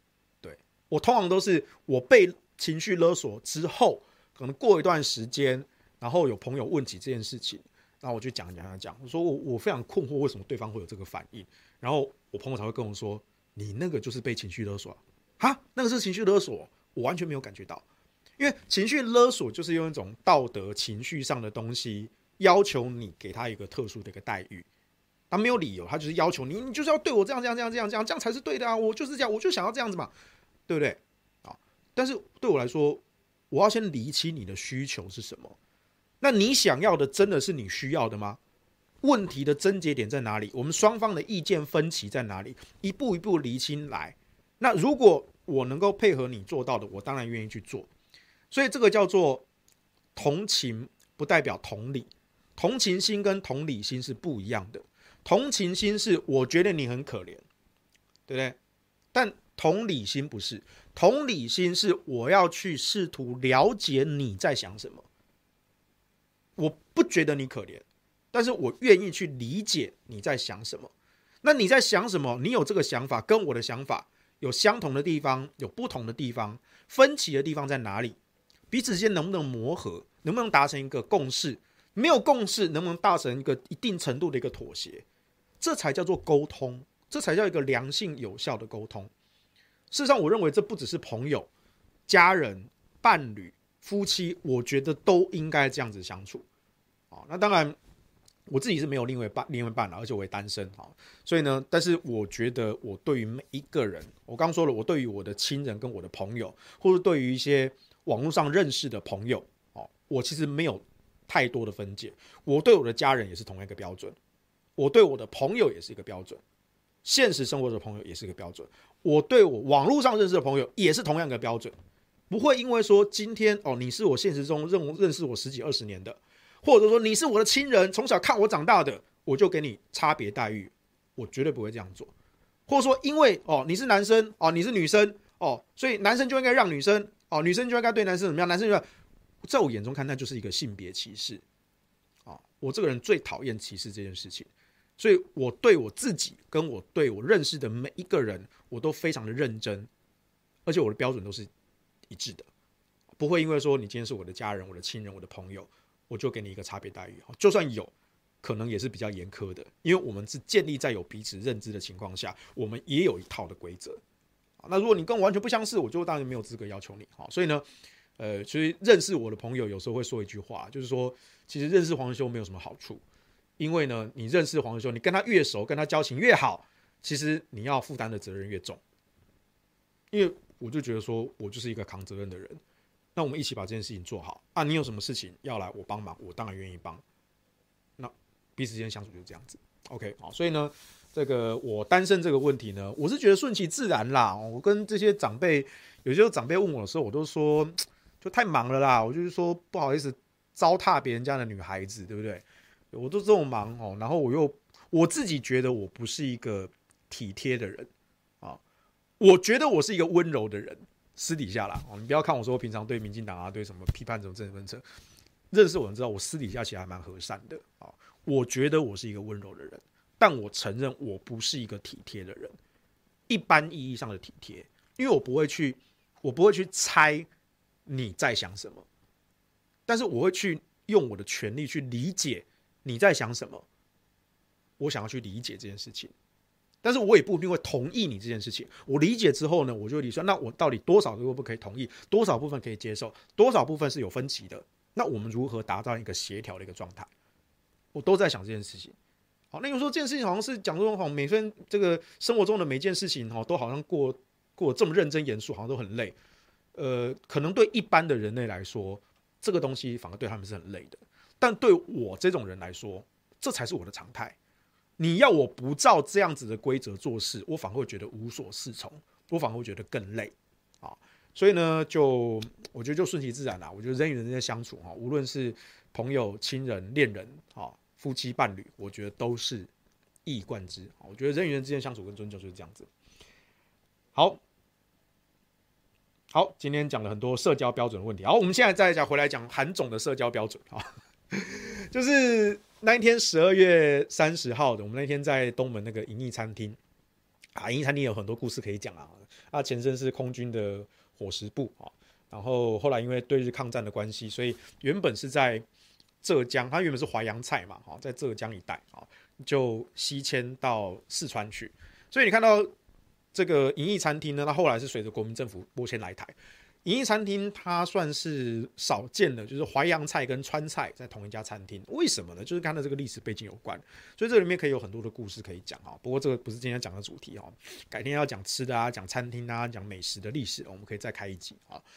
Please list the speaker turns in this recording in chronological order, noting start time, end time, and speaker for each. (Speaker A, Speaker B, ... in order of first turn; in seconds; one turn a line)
Speaker A: 0.4-17.8
Speaker A: 18.4-24.7
Speaker A: 25.3-30.1
Speaker A: 30.7-35.6
Speaker A: 36.2-38.4
Speaker A: 39.0-47.9
Speaker A: 48.5-49.5
Speaker A: 50.2-57.5
Speaker A: 58.3-58.6
Speaker A: 59.1-65.0
Speaker A: 66.6-70.9
Speaker A: 71.4-78.2
Speaker A: 78.7-85.0
Speaker A: 85.6-89.1
Speaker A: 89.9-91.5
Speaker A: 92.1-96.5
Speaker A: 97.1-97.8
Speaker A: 98.5-114.2
Speaker A: 114.8-116.4
Speaker A: 117.0-121.7
Speaker A: 122.3-132.1
Speaker A: 132.7-138.8
Speaker A: 139.4-141.4
Speaker A: 142.3-149.9
Speaker A: 150.7-151.5
Speaker A: 152.1-152.5
Speaker A: 153.2-164.0
Speaker A: 164.6-167.6
Speaker A: 168.2-173.0
Speaker A: 173.6-178.8
Speaker A: 180.1-182.6
Speaker A: 183.2-187.0
Speaker A: 188.0-207.9
Speaker A: 209.2-214.8
Speaker A: 215.5-222.6
Speaker A: 223.3-227.3
Speaker A: 227.9-228.8
Speaker A: 229.9-233.7
Speaker A: 234.8-236.1
Speaker A: 236.8-247.1
Speaker A: 247.9-248.9
Speaker A: 249.5-256.2
Speaker A: 256.8-264.4
Speaker A: 265.0-279.7
Speaker A: 280.3-282.9
Speaker A: 284.1-284.4
Speaker A: 286.3-296.8
Speaker A: 297.6-305.6
Speaker A: 306.2-312.7
Speaker A: 313.3-316.3
Speaker A: 316.9-331.8